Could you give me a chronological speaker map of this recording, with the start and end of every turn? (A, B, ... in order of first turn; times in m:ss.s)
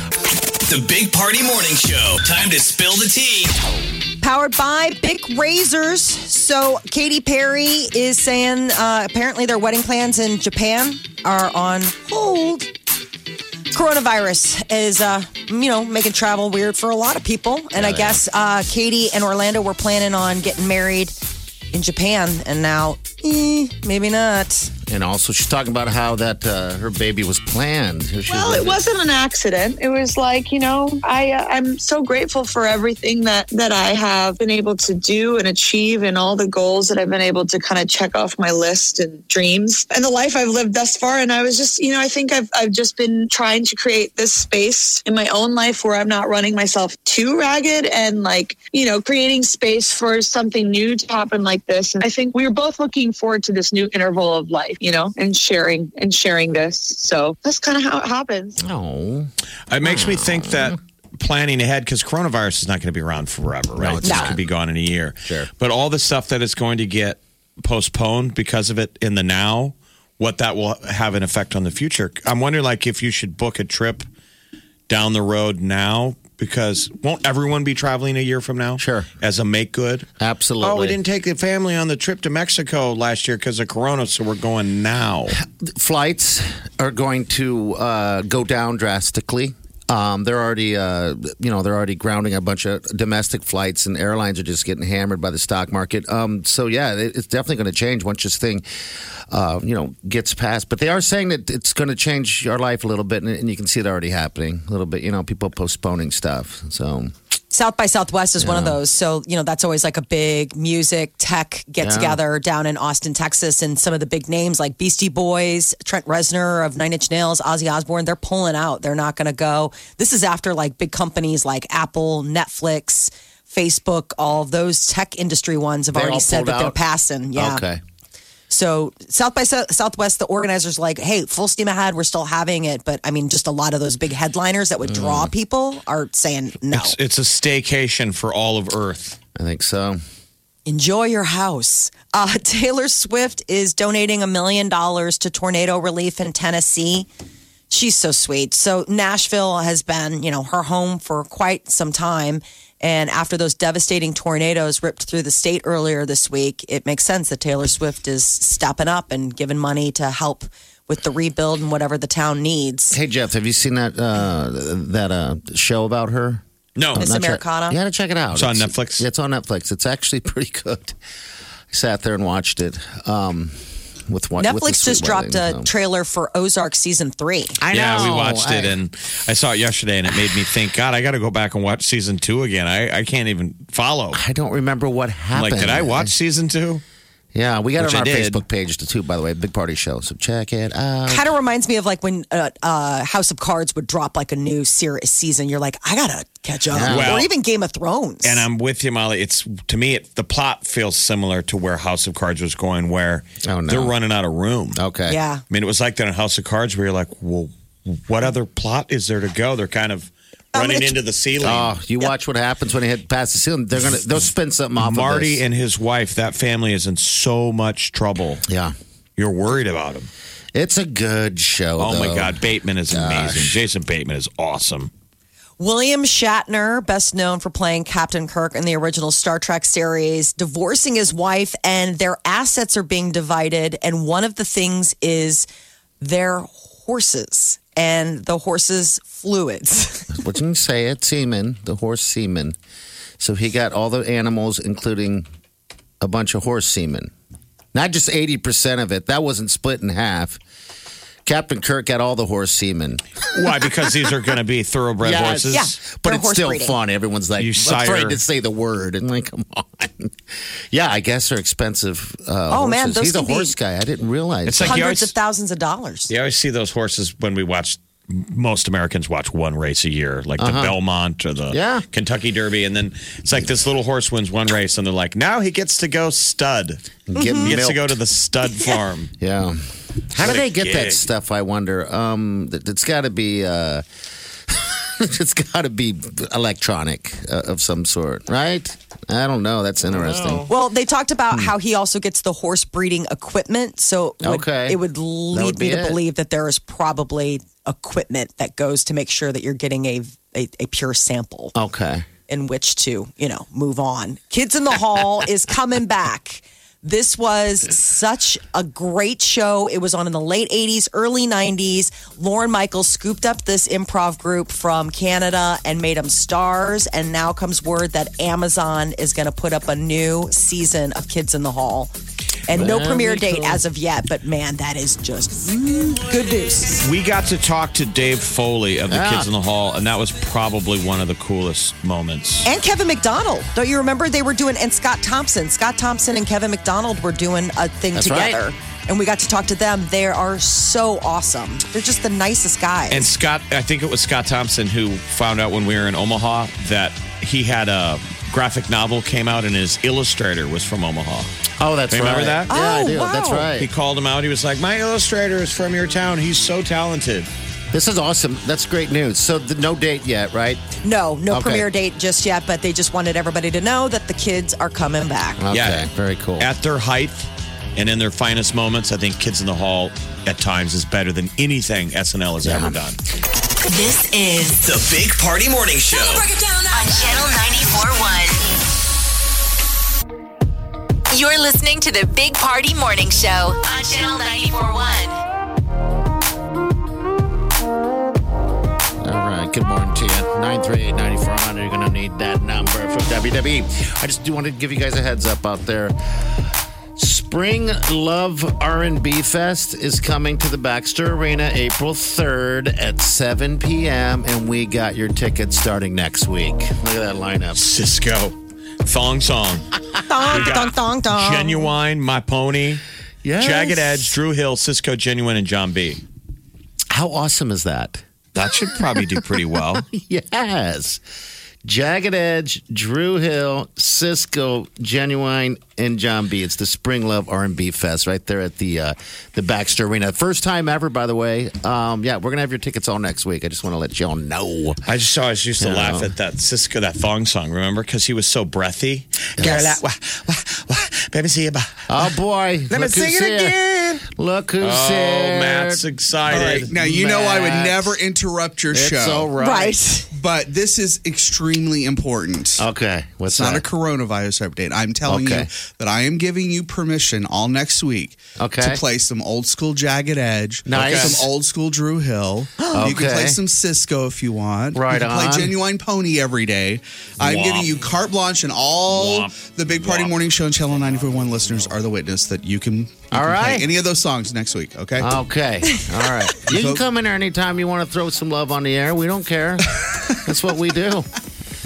0:00.6-0:03.5 A
0:04.2-0:12.7 B
0:13.7-0:21.1 B
0:17.7-0:18.2 C
0:21.7-0:24.7 B
0:24.9-0:28.8 C
0:28.3-0:58.6 D
0:58.6-0:59.3 C
0:59.7-1:14.0 E
0:59.8-1:00.8 C
1:03.7-1:04.4 C
1:04.0-1:04.3 B
1:05.2-1:05.5 C
1:14.9-1:20.1 E
1:18.8-1:19.1 C
1:20.2-1:21.0 C
1:20.6-1:25.4 E
1:25.3-1:38.6 C
1:39.3-1:47.1 C
1:47.5-2:07.6 B
1:48.4-1:48.8 C
1:51.8-1:52.2 C
2:05.9-2:06.8 C
2:07.3-2:07.8 C
2:08.5-2:16.9 B
2:14.8-2:15.3 C
2:16.7-2:19.2 E
2:19.4-2:20.0 C
2:20.6-2:27.1 B
2:27.7-2:43.0 B
2:42.9-2:51.0 C
2:46.8-2:47.1 E
2:47.0-2:47.8 B
2:48.3-2:49.0 E
2:51.7-2:55.7 C
2:54.4-2:57.6 B
2:57.6-2:58.8 C
2:57.7-3:04.2 E
3:04.1-3:06.1 C
3:05.3-3:06.8 E
3:07.3-3:11.3 C
3:07.8-3:08.4 E
3:11.1-3:18.4 B
3:16.7-3:17.2 C
3:16.9-3:17.3 E
3:18.2-3:24.8 E
3:23.4-3:23.9 C
3:24.7-3:25.2 C
3:25.1-3:25.4 B
3:25.5-3:31.7 E
3:30.5-3:30.9 B
3:31.4-3:35.4 C
3:34.8-3:38.4 E
3:38.5-3:38.7 C
3:39.2-3:40.1 E
3:40.5-3:43.6 C
3:41.8-3:44.9 E
3:45.6-3:55.5 B
3:56.0-4:00.1 B
4:00.1-4:02.6 C
4:03.2-4:05.3 C
4:06.0-4:07.1 C
4:07.7-4:10.4 C
4:11.2-4:13.0 C
4:13.3-4:15.7 E
4:15.0-4:24.8 C
4:15.5-4:16.8 B
4:17.4-4:18.2 E
4:22.5-4:23.5 B
4:24.4-4:25.1 E
4:24.6-4:26.1 B
4:26.1-4:36.8 E
4:30.4-4:30.8 C
4:31.5-4:31.8 C
4:37.1-4:38.0 C
4:37.1-4:37.5 B
4:37.4-4:39.1 E
4:39.2-4:43.8 C
4:40.2-4:41.1 E
4:44.5-4:50.5 C
4:50.5-5:01.5 B
4:54.2-4:54.8 C
4:55.3-4:56.0 C
5:01.5-5:02.0 C
5:02.3-5:21.9 B
5:22.4-5:26.8 B
5:22.5-5:23.6 C
5:26.8-5:32.4 E
5:28.9-5:29.3 C
5:32.4-5:43.0 B
5:37.9-5:38.4 C
5:42.9-5:51.3 E
5:51.6-5:53.7 C
5:51.9-5:52.5 E
5:52.5-5:53.5 B
5:53.6-5:57.3 E
5:57.7-6:00.6 C
6:00.8-6:05.4 B
6:01.3-6:01.6 C
6:05.4-6:06.5 C
6:05.5-6:05.9 E
6:06.4-6:13.0 E
6:12.4-6:12.8 C
6:13.6-6:14.6 F
6:14.6-6:16.3 A
6:16.6-6:18.4 F
6:21.1-6:25.2 F
6:29.0-6:36.0 C
6:37.0-6:47.6 C
6:47.5-6:52.8 E
6:50.0-6:51.6 B
6:53.2-6:54.1 C
6:53.4-6:56.0 E
6:56.9-7:01.0 C
6:58.3-6:59.8 E
7:01.6-7:14.8 C
7:14.8-7:22.1 E
7:15.6-7:16.1 C
7:19.4-7:19.8 C
7:21.9-7:28.0 C
7:22.7-7:24.0 E
7:24.6-7:26.7 E
7:26.3-7:29.3 G
7:28.7-7:29.8 C
7:29.4-7:30.1 B
7:30.1-7:32.6 G
7:32.6-7:33.6 C
7:33.3-7:55.1 G
7:35.1-7:35.5 C
7:38.4-7:38.8 C
7:40.7-7:41.3 C
7:40.7-7:41.2 E
7:42.7-7:43.4 C
7:44.7-7:45.6 C
7:47.3-7:47.7 E
7:48.9-7:50.1 E
7:53.1-7:53.7 C
7:55.0-8:01.1 C
7:56.4-7:56.8 G